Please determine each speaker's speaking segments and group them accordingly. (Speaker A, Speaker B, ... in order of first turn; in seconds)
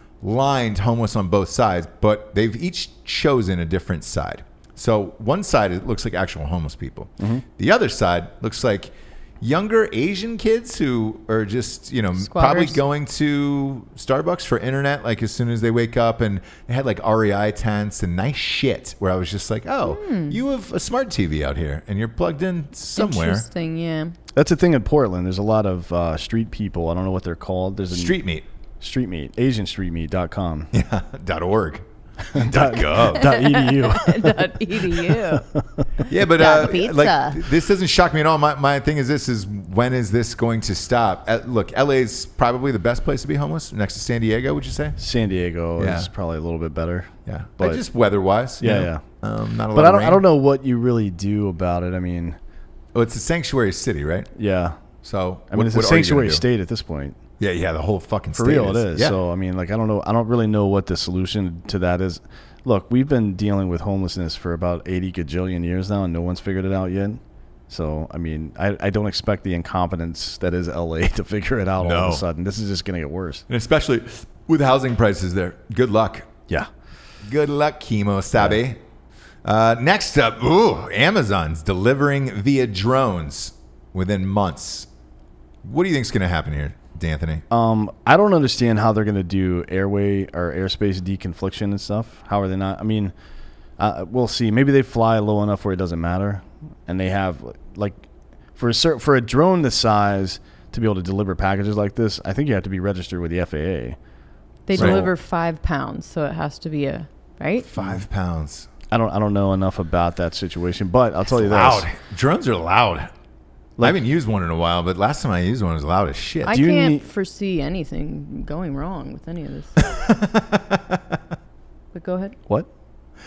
Speaker A: 0.2-23.4, 27.9-28.4, 30.7-33.4, 36.1-45.0, 45.8-46.1, 47.2-50.2, 52.9-54.3, 55.0-56.4, 57.4-59.1, 71.8-72.2, 73.5-76.3, 77.2-78.8, 79.4-84.9, 85.6-87.4, 104.8-105.1, 107.6-108.7, 111.3-113.1, 113.8-116.6, 119.8-121.2
Speaker B: 12.2-12.8, 19.8-20.4, 22.9-24.1, 32.9-35.5, 36.0-37.5, 104.7-107.7, 116.5-119.9, 121.9-122.4
Speaker C: 24.3-28.1, 28.8-30.7, 32.3-35.9, 45.0-47.8, 48.6-49.0, 49.7-52.4, 54.4-54.8, 55.5-57.2, 58.3-73.4, 87.5-93.1, 93.8-98.0, 98.5-104.0, 104.7-105.1, 108.9-111.9, 116.5-117.0